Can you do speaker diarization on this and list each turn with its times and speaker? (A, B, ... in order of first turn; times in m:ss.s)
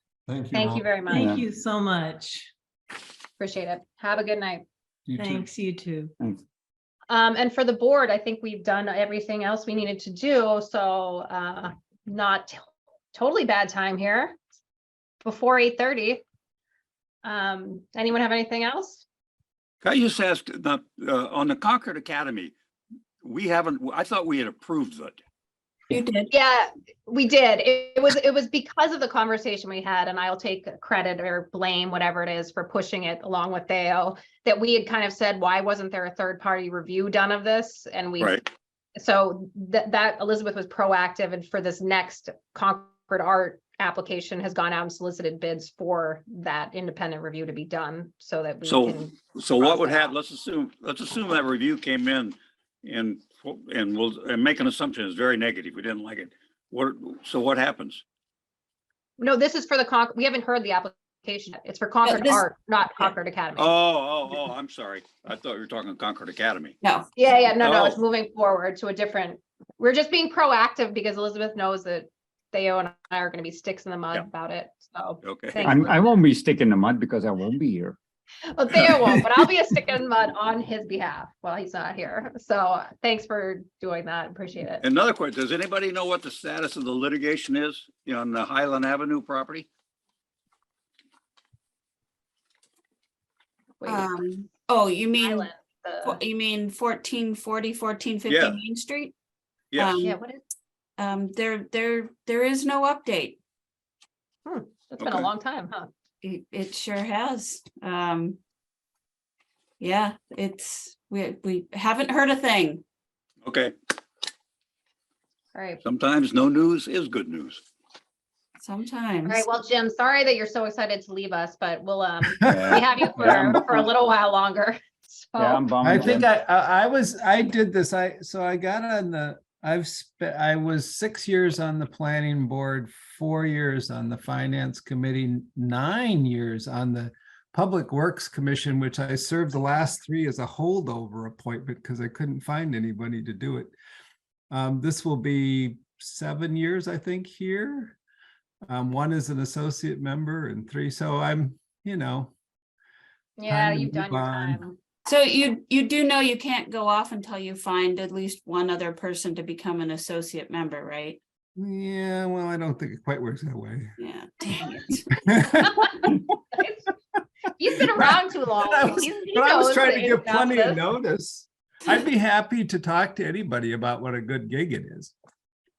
0:00.3-0:01.0 A
0:00.5-0:01.4 B
0:01.0-0:02.5 C
0:01.1-0:01.4 D
0:03.4-0:04.6 B
0:05.1-0:05.5 A
0:05.1-0:06.1 C
0:07.1-0:14.4 B
0:15.2-0:16.2 B
0:17.2-0:19.0 B
0:19.8-0:22.5 E
0:23.2-0:25.2 E
0:25.9-0:26.3 F
0:26.3-0:38.4 B
0:39.0-0:50.1 B
0:48.6-0:58.0 E
0:59.2-1:03.8 B
1:02.0-1:02.4 F
1:03.6-1:06.8 E
1:06.8-1:07.1 F
1:07.2-1:16.2 B
1:07.6-1:08.0 E
1:15.2-1:15.7 E
1:15.6-1:18.0 D
1:18.5-1:24.8 B
1:18.8-1:19.2 A
1:24.8-1:29.7 E
1:33.8-1:34.1 B
1:33.8-1:35.5 F
1:35.2-1:36.2 B
1:36.0-1:39.1 F
1:38.3-1:38.6 E
1:39.7-1:40.0 E
1:39.8-1:40.2 F
1:40.0-1:40.4 B
1:41.0-1:43.4 F
1:44.4-1:45.9 B
1:45.0-1:45.3 E
1:46.2-1:48.4 F
1:49.8-1:52.8 F
1:53.4-1:53.7 E
1:55.6-1:55.8 B
1:55.8-1:57.6 E
1:58.6-1:59.4 F
1:59.2-2:06.1 B
2:02.3-2:03.3 A
2:02.4-2:03.8 D
2:05.4-2:06.3 D
2:05.8-2:23.7 A
2:24.5-2:28.0 A
2:28.7-2:32.3 A
2:33.4-2:34.8 B
2:33.5-2:34.6 A
2:35.0-2:41.2 F
2:41.6-2:44.0 A
2:44.0-2:45.1 F
2:45.2-2:46.2 A
2:46.6-2:46.9 B
2:47.6-2:50.8 B
2:47.8-2:55.1 A